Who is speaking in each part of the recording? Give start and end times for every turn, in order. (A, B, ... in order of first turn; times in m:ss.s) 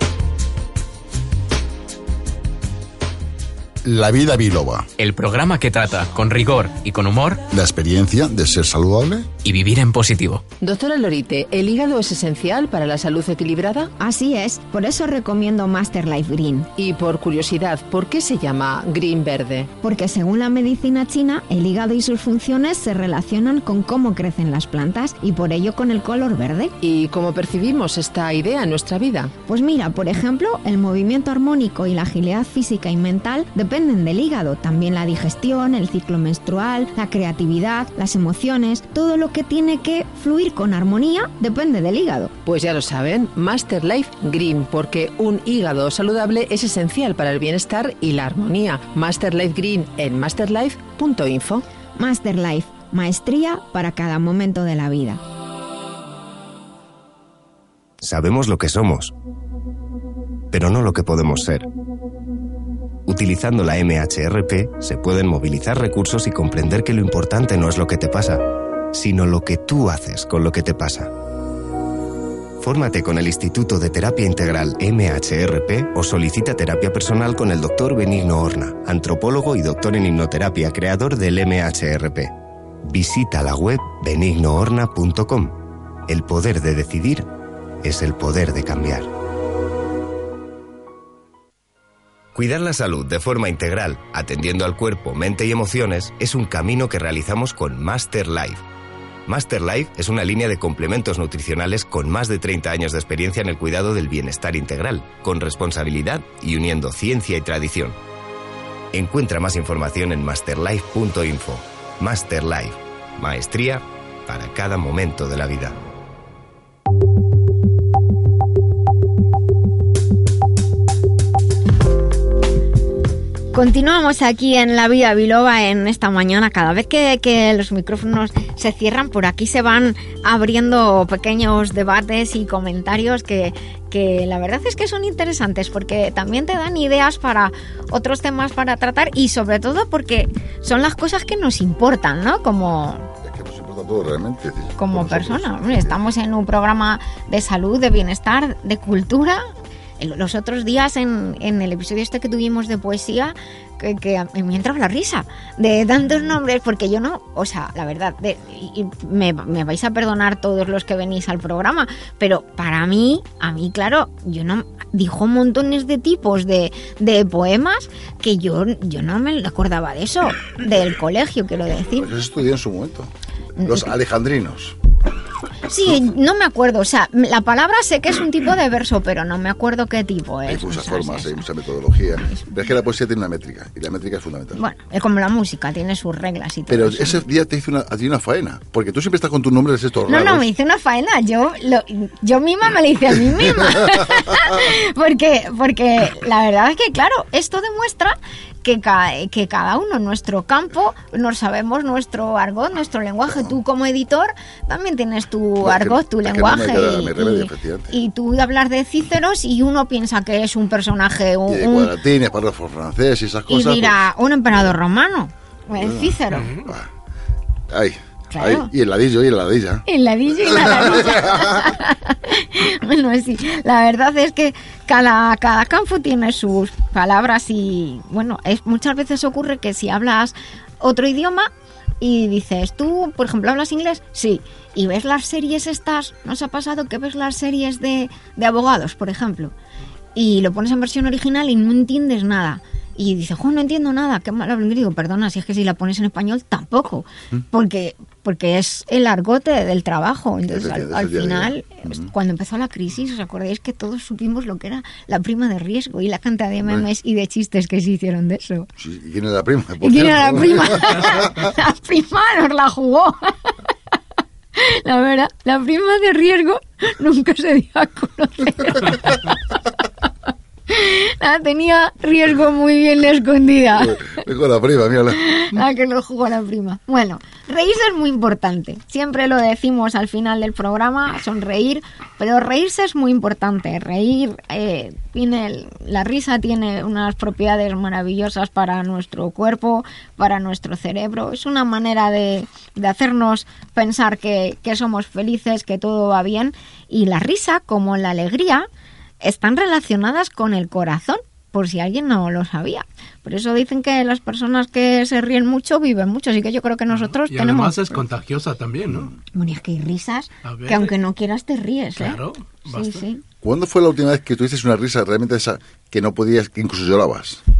0:03.8-0:04.9 A
0:05.0-0:07.4 B
0:07.5-0:09.3 A
0:09.4-0:10.5 B
0:10.6-0:13.9 C
0:14.0-0:16.7 D
0:16.8-0:19.7 C
0:19.8-0:26.8 D
0:26.8-0:29.3 C
0:29.5-0:42.3 D
0:42.5-0:51.6 C
0:52.0-0:55.2 D
0:58.0-0:59.1 E
1:00.5-1:01.7 E
1:03.1-1:11.1 E
1:12.6-1:22.3 E
1:22.8-1:27.3 E
1:27.8-1:29.1 E
1:32.3-1:38.6 E
1:39.3-1:48.0 E
1:48.9-1:55.8 E
2:03.5-2:23.1 D
2:23.2-2:26.0 A
2:24.8-2:29.4 D
2:30.0-2:52.1 D
2:51.9-2:54.8 A
2:53.6-2:53.8 D
2:55.7-3:01.5 D
3:00.5-3:04.6 A
3:04.6-3:07.2 D
3:06.7-3:10.5 A
3:10.1-3:31.9 D
3:13.6-3:14.4 A
3:25.6-3:27.9 A
3:31.5-3:34.0 A
3:33.5-3:36.5 D
3:35.8-3:36.9 A
3:36.3-3:36.7 F
3:37.7-3:39.8 A
3:38.3-3:38.7 D
3:39.9-3:51.5 D
3:40.4-3:41.7 A
3:52.0-3:59.5 D
4:00.2-4:18.7 D
4:10.5-4:12.1 A
4:18.8-4:21.5 A
4:19.8-4:23.5 D
4:24.6-4:29.6 D
4:30.7-4:34.2 D
4:33.8-4:35.3 A
4:35.2-4:58.7 D
4:59.2-5:08.0 D
5:06.9-5:09.1 F
5:09.3-5:13.2 D
5:10.4-5:10.9 F
5:12.0-5:13.0 F
5:13.4-5:17.4 A